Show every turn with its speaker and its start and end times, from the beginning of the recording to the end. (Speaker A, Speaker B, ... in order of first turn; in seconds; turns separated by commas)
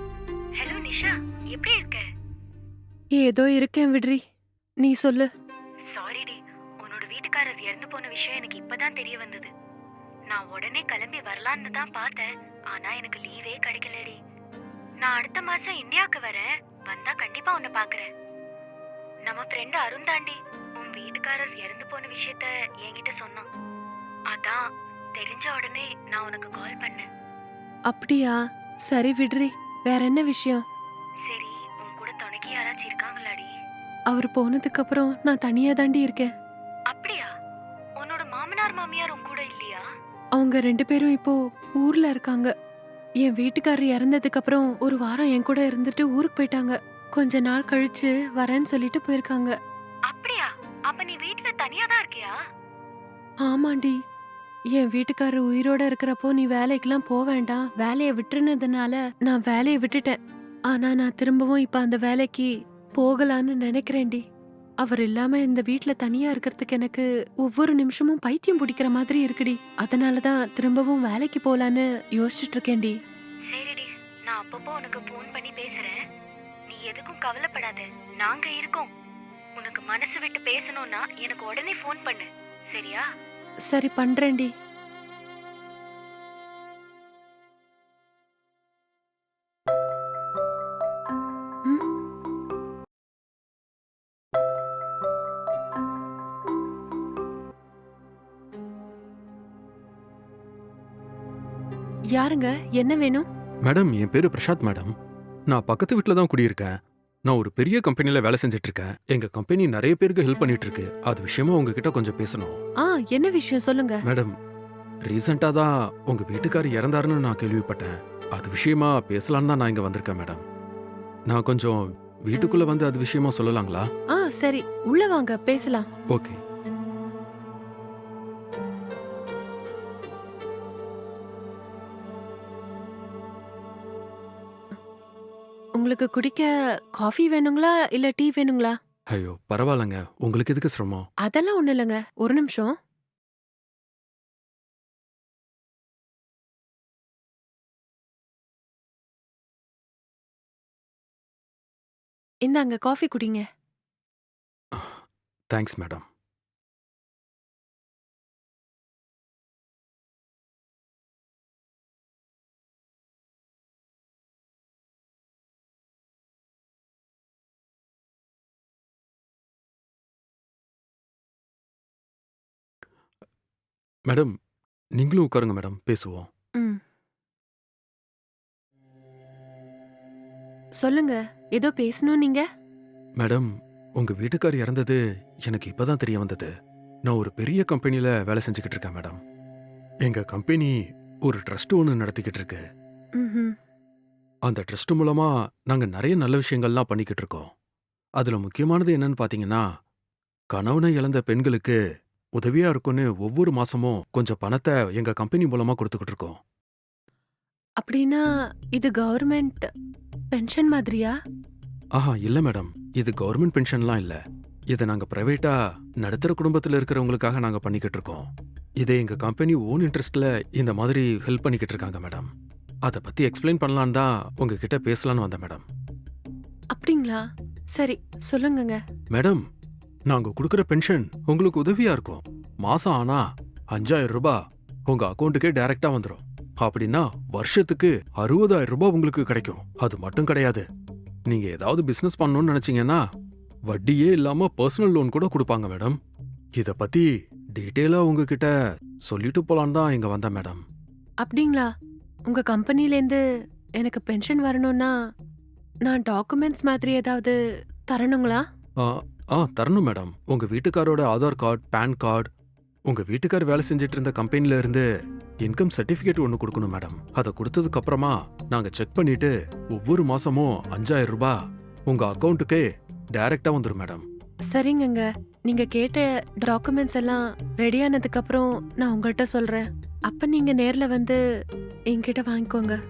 Speaker A: 0.6-2.0, Speaker B: 3.1-4.2, Speaker B: 4.8-5.3, Speaker A: 5.9-9.5, Speaker A: 10.3-14.2, Speaker A: 15.0-18.1, Speaker A: 19.2-23.5, Speaker A: 24.3-24.6, Speaker A: 25.2-27.1, Speaker B: 27.9-28.3, Speaker B: 28.9-30.6, Speaker A: 31.3-33.5, Speaker B: 34.1-36.3, Speaker A: 36.9-37.3, Speaker A: 38.0-39.8, Speaker B: 40.4-42.5, Speaker B: 43.2-49.5, Speaker A: 50.1-52.4, Speaker B: 53.5-54.0, Speaker B: 54.8-60.2, Speaker B: 60.7-64.2, Speaker B: 64.8-73.0, Speaker A: 73.5-75.9, Speaker A: 76.7-78.9, Speaker A: 79.6-83.0, Speaker B: 83.7-84.5, Speaker B: 102.1-103.2, Speaker C: 103.6-104.9, Speaker C: 105.5-112.6, Speaker B: 112.9-114.0, Speaker C: 114.0-114.3, Speaker C: 115.0-120.4, Speaker C: 121.3-123.9, Speaker B: 124.2-125.8, Speaker C: 126.1-126.4, Speaker B: 135.8-136.5, Speaker B: 137.0-138.7, Speaker C: 139.1-141.1, Speaker B: 141.2-142.7, Speaker B: 152.4-153.4, Speaker C: 154.7-156.0, Speaker C: 174.1-174.3, Speaker C: 175.0-176.3, Speaker B: 180.8-182.4, Speaker C: 183.2-186.5, Speaker C: 187.1-189.2, Speaker C: 190.0-192.6, Speaker B: 193.2-193.5, Speaker C: 194.4-197.5, Speaker C: 198.2-199.6, Speaker C: 200.5-201.8, Speaker C: 202.4-206.4, Speaker B: 207.8-208.2, Speaker B: 208.8-209.6, Speaker B: 210.3-211.1, Speaker C: 211.9-214.2, Speaker C: 214.7-218.3, Speaker C: 218.8-222.3, Speaker C: 222.8-225.6, Speaker B: 226.8-227.2, Speaker B: 227.8-228.8, Speaker C: 229.1-229.4, Speaker C: 230.1-240.7, Speaker C: 241.3-243.0, Speaker C: 243.7-246.0, Speaker C: 246.6-248.5, Speaker C: 249.1-250.6, Speaker B: 251.2-251.7, Speaker B: 252.3-253.2, Speaker B: 253.8-254.9, Speaker B: 255.8-257.3, Speaker B: 257.9-258.4, Speaker C: 258.8-262.3, Speaker C: 262.9-264.9, Speaker C: 265.4-274.1, Speaker B: 274.5-281.2, Speaker B: 281.9-282.8